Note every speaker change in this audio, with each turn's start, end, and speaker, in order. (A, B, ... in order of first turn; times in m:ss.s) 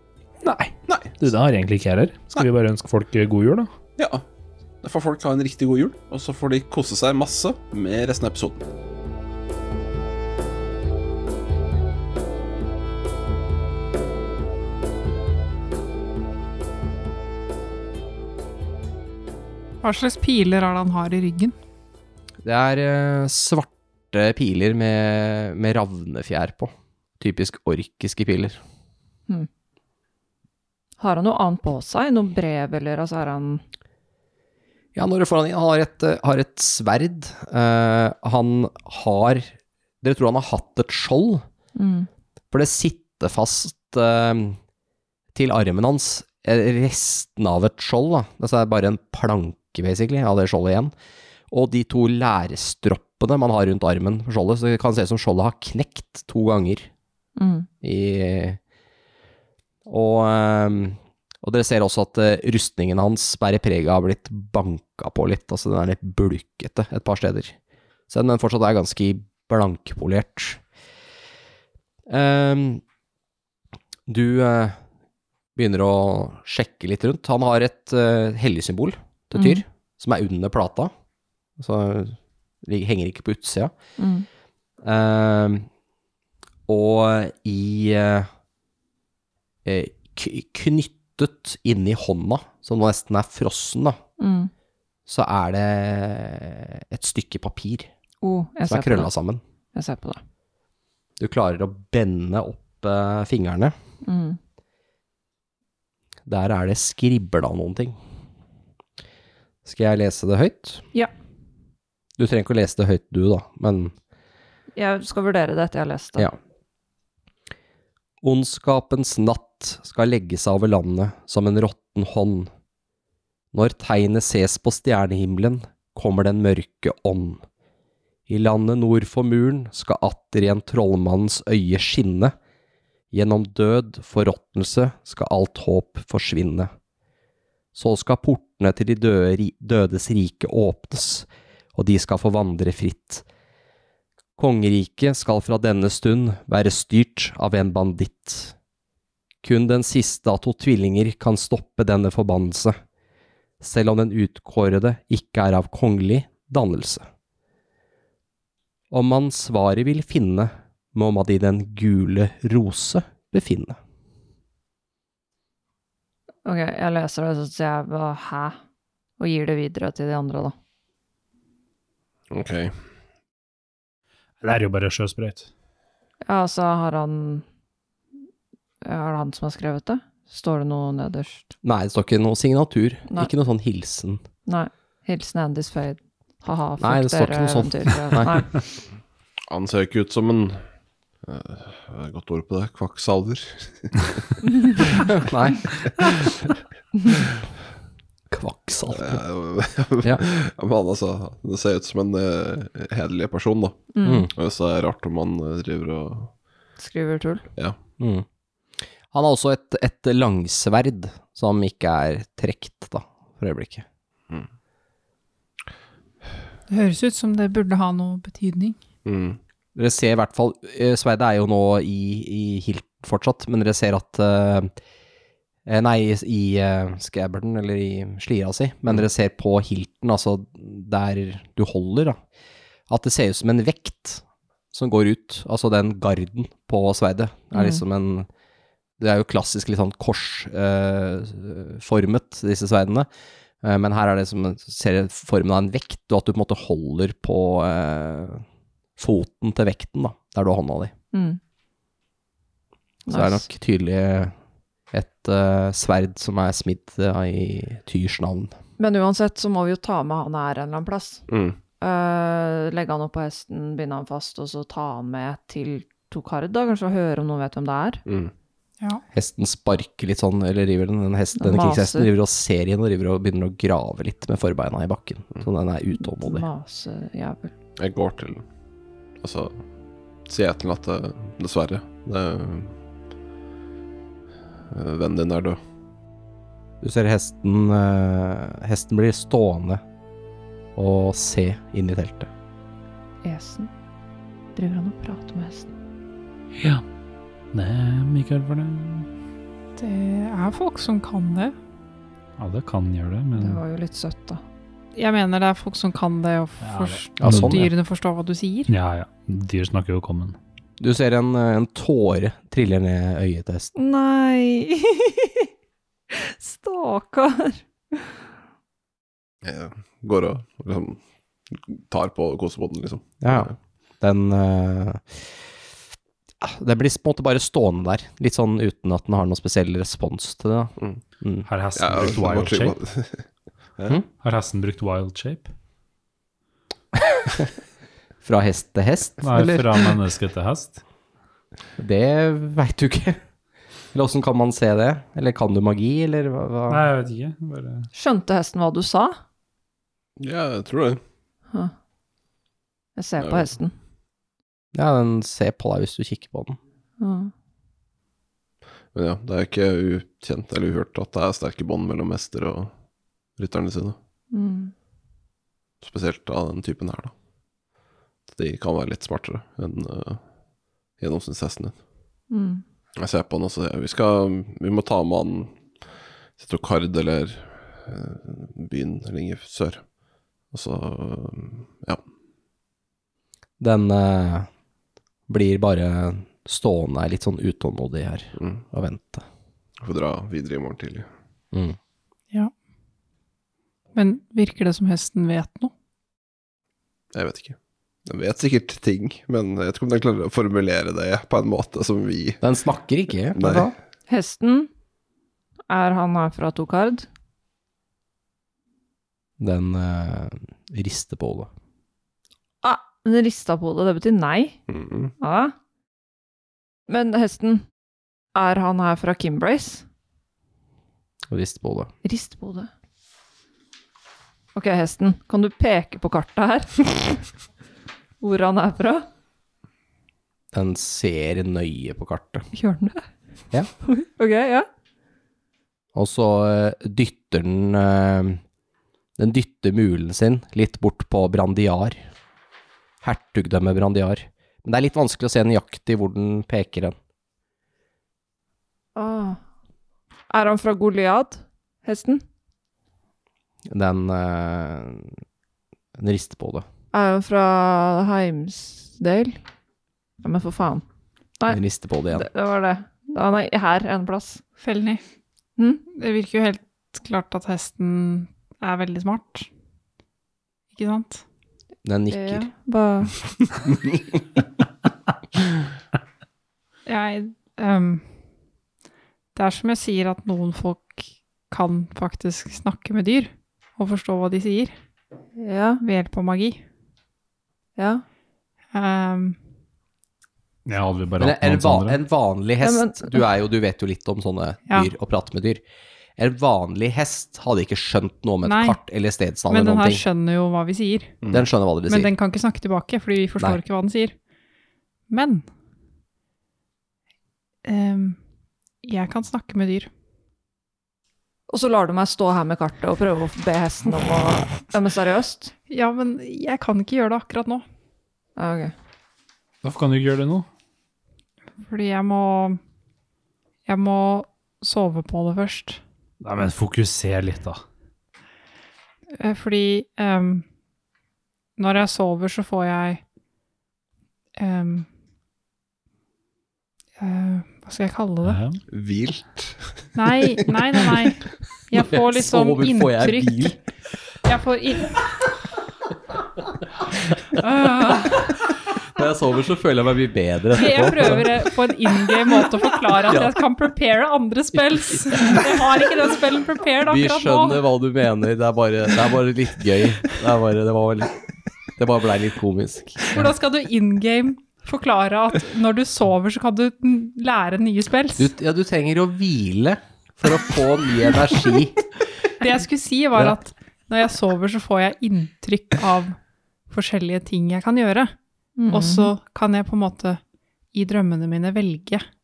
0:00.4-0:03.7 A
0:04.0-0:04.2 B
0:04.8-0:08.6 B
0:19.8-0:21.5 C
0:22.4-0:28.6 D
0:31.0-0:33.6 E
0:35.0-0:41.4 D
0:41.8-0:42.1 E
0:42.5-0:44.6 D
0:45.3-0:50.9 D
0:51.5-0:56.9 D
0:57.4-0:57.7 E
0:57.8-0:58.6 D
0:59.9-1:07.5 D
1:08.1-1:10.6 D
1:12.1-1:12.8 D
1:14.1-1:14.8 D
1:15.6-1:20.9 D
1:19.3-1:19.6 E
1:21.6-1:23.7 D
1:24.0-1:24.3 E
1:24.8-1:25.7 D
1:26.7-1:28.3 D
1:29.6-1:34.0 D
1:34.2-1:34.5 E
1:35.1-1:37.9 D
1:38.2-1:39.1 E
1:38.7-1:39.4 D
1:39.7-1:40.2 E
1:41.2-1:43.8 D
1:44.0-1:44.4 E
1:46.3-1:48.0 D
1:49.6-1:50.8 D
1:52.2-1:53.9 D
1:54.8-1:56.3 E
1:58.2-2:02.5 D
2:03.5-2:07.4 D
2:08.3-2:12.3 D
2:13.1-2:16.7 D
2:17.8-2:23.2 D
2:24.4-2:28.5 D
2:29.4-2:32.8 D
2:33.6-2:37.1 D
2:38.9-2:43.8 D
2:46.4-2:48.6 E
2:49.2-2:50.6 E
2:52.3-2:52.8 B
2:54.4-2:55.5 A
2:56.2-2:57.4 E
2:58.8-3:01.4 E
3:01.6-3:04.2 D
3:04.5-3:08.6 E
3:06.8-3:08.4 D
3:09.5-3:10.6 B
3:11.2-3:14.4 B
3:14.7-3:15.0 E
3:15.1-3:15.7 D
3:18.3-3:19.2 D
3:18.9-3:26.3 B
3:23.9-3:24.3 E
3:24.0-3:24.3 D
3:26.8-3:27.5 E
3:28.0-3:28.2 D
3:29.0-3:33.8 D
3:36.7-3:38.8 C
3:39.0-3:39.4 B
3:39.8-3:44.7 D
3:45.6-3:52.2 D
3:52.9-3:58.3 D
3:57.5-3:57.8 E
3:59.0-4:03.1 D
4:03.6-4:08.4 D
4:09.0-4:10.9 D
4:11.1-4:11.4 E
4:13.1-4:13.4 E
4:13.1-4:14.4 D
4:14.9-4:18.5 D
4:18.8-4:21.2 E
4:21.3-4:21.6 B
4:21.8-4:28.0 E
4:28.1-4:28.3 B
4:29.1-4:36.5 D
4:31.4-4:32.1 E
4:36.0-4:37.5 E
4:37.8-4:38.4 B
4:39.2-4:39.6 B
4:40.3-4:42.8 B
4:44.7-4:45.6 B
4:46.8-4:49.8 D
4:50.8-4:52.3 D
4:53.2-4:53.7 E
4:54.6-4:55.7 E
4:56.6-4:56.8 A
4:57.5-4:59.1 A
4:59.8-5:01.5 C
5:02.4-5:03.6 A
5:03.4-5:04.4 E
5:04.9-5:08.7 C
5:06.6-5:07.7 A
5:07.2-5:07.6 D
5:08.7-5:10.4 A
5:10.8-5:13.7 D
5:13.8-5:15.5 E
5:16.1-5:18.1 E
5:19.4-5:23.6 B
5:23.2-5:25.3 D
5:26.4-5:31.5 D
5:31.5-5:32.8 A
5:31.8-5:33.3 B
5:34.2-5:35.5 A
5:38.2-5:39.9 D
5:39.2-5:40.8 A
5:41.8-5:43.2 D
5:43.9-5:46.8 D
5:46.7-5:47.9 A
5:47.9-5:49.2 E
5:50.2-5:51.0 B
5:53.0-5:53.7 E
5:53.2-5:53.5 B
5:54.7-5:56.6 D
5:57.0-5:57.3 E
5:58.9-6:02.7 B
6:03.4-6:04.0 B
6:04.3-6:04.7 E
6:05.8-6:07.1 B
6:08.3-6:10.2 B
6:11.0-6:11.8 B
6:12.3-6:12.6 E
6:13.0-6:15.6 B
6:16.4-6:19.8 B
6:20.5-6:22.0 B
6:23.6-6:24.5 D
6:25.3-6:29.2 D
6:29.8-6:31.1 B
6:33.9-6:35.7 C
6:37.1-6:42.4 B
6:42.4-6:43.7 D
6:43.4-6:43.7 B
6:44.1-6:44.7 E
6:45.7-6:47.1 E
6:49.4-6:51.5 D
6:52.6-6:54.6 E
6:54.7-6:55.1 B
6:55.2-6:55.5 E
6:56.9-6:57.6 E
6:58.4-6:59.8 E
7:01.3-7:01.9 D
7:02.0-7:02.7 E
7:04.6-7:07.2 E
7:08.2-7:09.1 E
7:10.5-7:12.5 D
7:12.5-7:13.0 E
7:13.8-7:14.7 E
7:15.9-7:18.4 D
7:19.2-7:22.0 D
7:23.0-7:27.0 D
7:29.0-7:29.4 E
7:30.3-7:32.2 E
7:33.7-7:35.1 D
7:36.0-7:36.6 D
7:36.9-7:39.4 E
7:40.2-7:40.8 E
7:41.5-7:42.3 D
7:42.1-7:44.4 E
7:44.6-7:45.0 C
7:45.6-7:45.8 E
7:45.9-7:49.5 C
7:50.7-7:51.2 C
7:51.8-7:52.5 D
7:52.1-7:53.2 E
7:56.9-7:58.1 C
7:59.4-8:04.7 C
8:05.4-8:05.8 E
8:05.8-8:06.6 C
8:07.8-8:08.0 E
8:08.7-8:09.4 C
8:10.6-8:12.0 A
8:11.2-8:15.6 D
8:12.6-8:13.2 E
8:16.2-8:20.0 D
8:18.4-8:18.8 C
8:19.5-8:21.2 C
8:21.3-8:22.1 D
8:21.9-8:24.1 C
8:25.1-8:25.4 C
8:27.6-8:28.2 C
8:28.8-8:29.9 C
8:31.5-8:35.5 E
8:35.7-8:37.6 C
8:38.4-8:38.7 E
8:39.6-8:40.5 A
8:41.6-8:42.6 C
8:43.6-8:45.8 C
8:46.2-8:47.6 A
8:49.2-8:50.4 C
8:51.6-8:53.0 C
8:54.4-8:54.9 C
8:57.0-8:58.4 C
8:58.2-8:58.6 A
8:58.7-8:59.9 B
8:59.9-9:03.6 C
9:01.7-9:03.6 D
9:04.2-9:05.1 C
9:07.4-9:08.2 C
9:08.9-9:11.4 D
9:10.5-9:17.6 C
9:13.1-9:13.3 D
9:16.8-9:21.2 D
9:21.8-9:23.3 D
9:23.0-9:28.3 C
9:28.2-9:31.9 D
9:32.4-9:36.2 C
9:36.7-9:38.1 C
9:38.6-9:39.1 E
9:38.7-9:40.2 C
9:40.7-9:42.0 C